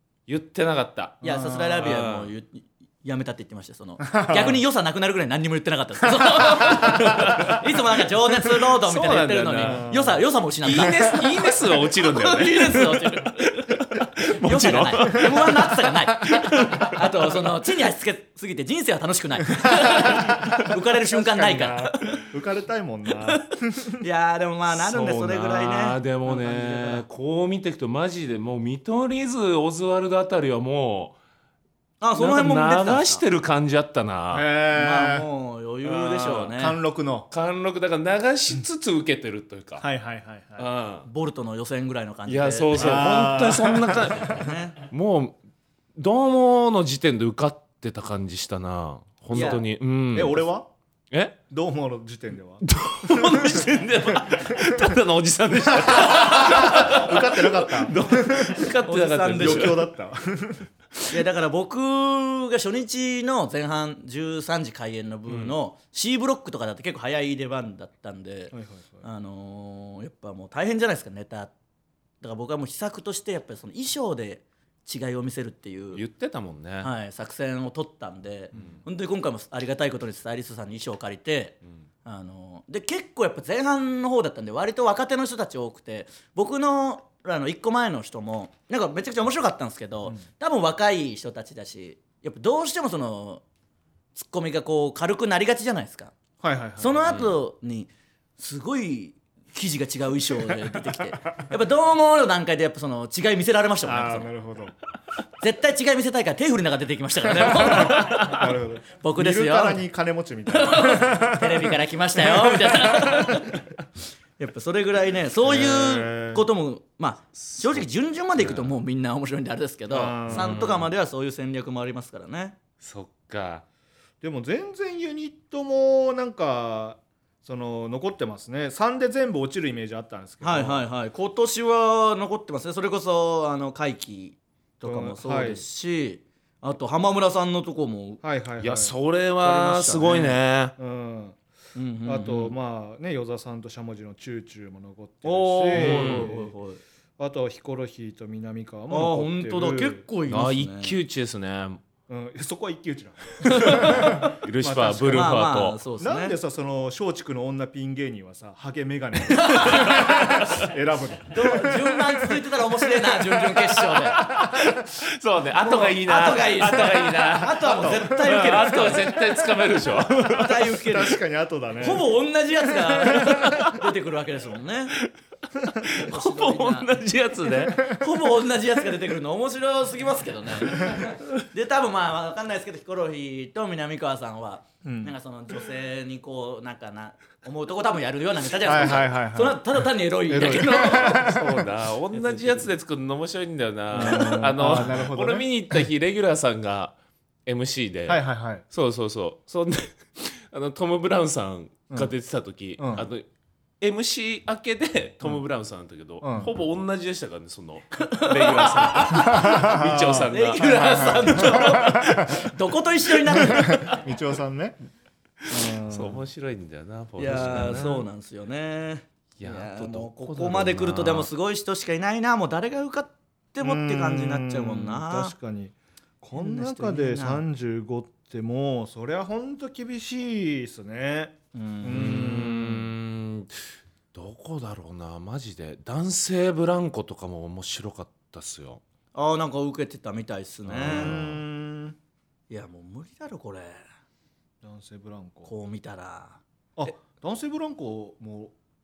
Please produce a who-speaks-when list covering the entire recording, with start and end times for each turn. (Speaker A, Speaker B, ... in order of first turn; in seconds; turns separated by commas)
Speaker A: 0.3-1.2, Speaker B: 1.2-2.0, Speaker C: 1.2-13.7, Speaker A: 1.8-2.3, Speaker B: 4.0-4.6, Speaker B: 6.4-6.9, Speaker A: 6.7-7.6, Speaker A: 8.5-9.9, Speaker B: 9.6-10.2, Speaker A: 10.6-17.0, Speaker C: 14.4-22.2, Speaker B: 19.9-24.0, Speaker C: 24.0-27.1, Speaker A: 24.7-31.2, Speaker C: 32.0-33.2, Speaker A: 32.2-34.5, Speaker B: 34.3-35.3, Speaker C: 34.7-36.8, Speaker B: 35.9-37.3, Speaker A: 37.3-39.8, Speaker B: 39.8-40.7, Speaker A: 40.6-41.1, Speaker C: 41.0-43.1, Speaker A: 42.3-45.4, Speaker B: 42.7-44.4, Speaker C: 44.2-44.8, Speaker A: 46.0-50.4, Speaker C: 49.3-49.6, Speaker B: 49.3-50.7, Speaker A: 51.1-51.4, Speaker B: 51.5-54.9, Speaker A: 52.6-59.9, Speaker B: 55.6-58.7, Speaker C: 58.8-59.8, Speaker B: 59.3-60.7, Speaker C: 61.1-71.5, Speaker A: 65.3-65.5, Speaker B: 68.5-69.0, Speaker C: 72.2-76.0, Speaker A: 75.9-76.9, Speaker C: 76.8-93.4, Speaker C: 94.1-96.1, Speaker B: 96.4-97.3, Speaker C: 96.8-104.3, Speaker A: 97.1-97.3, Speaker B: 103.8-104.7, Speaker C: 105.4-108.4, Speaker B: 107.6-113.4, Speaker A: 107.7-108.4, Speaker C: 109.0-109.8, Speaker C: 110.5-113.6, Speaker C: 114.4-122.5, Speaker B: 115.4-116.5, Speaker A: 117.4-117.8, Speaker A: 118.4-118.7, Speaker B: 119.9-120.7, Speaker A: 120.3-120.9, Speaker A: 122.8-123.6, Speaker B: 124.2-130.8, Speaker C: 130.4-138.2, Speaker B: 134.8-135.6, Speaker B: 138.2-138.9, Speaker A: 138.6-140.7, Speaker C: 139.4-140.4, Speaker B: 140.8-141.4, Speaker C: 141.7-142.5, Speaker B: 142.0-146.5, Speaker C: 145.2-146.8, Speaker A: 145.7-146.3, Speaker B: 147.2-150.0, Speaker C: 148.9-151.0, Speaker A: 150.3-151.8, Speaker B: 152.1-155.4, Speaker C: 153.4-154.3, Speaker A: 153.5-155.8, Speaker C: 155.1-156.3, Speaker B: 156.0-162.0, Speaker C: 159.3-160.3, Speaker A: 159.8-160.5, Speaker C: 161.3-164.2, Speaker A: 163.9-170.7, Speaker C: 165.6-169.2, Speaker C: 170.2-171.2, Speaker B: 170.8-172.1, Speaker C: 171.8-174.9, Speaker A: 173.3-173.7, Speaker A: 175.6-177.9, Speaker C: 175.9-176.9, Speaker C: 177.6-191.4, Speaker B: 184.8-185.1, Speaker B: 188.6-191.7, Speaker A: 190.6-196.9, Speaker C: 192.2-192.6, Speaker B: 193.9-195.8, Speaker A: 197.4-203.2, Speaker B: 198.1-198.6, Speaker B: 202.8-203.1, Speaker A: 203.8-212.3, Speaker B: 206.2-206.5, Speaker C: 208.0-209.5, Speaker B: 209.1-210.3, Speaker C: 210.3-214.0, Speaker B: 211.0-212.3, Speaker B: 213.4-214.8, Speaker A: 215.4-218.0, Speaker B: 215.5-216.2, Speaker C: 217.2-225.3, Speaker A: 219.4-221.3, Speaker B: 223.6-232.9, Speaker C: 226.3-227.4, Speaker C: 231.5-232.4, Speaker A: 231.9-238.8, Speaker C: 239.1-241.1, Speaker A: 240.7-241.4, Speaker B: 240.8-241.9, Speaker C: 242.5-243.8, Speaker B: 244.6-245.5, Speaker C: 245.4-246.4, Speaker B: 246.8-248.5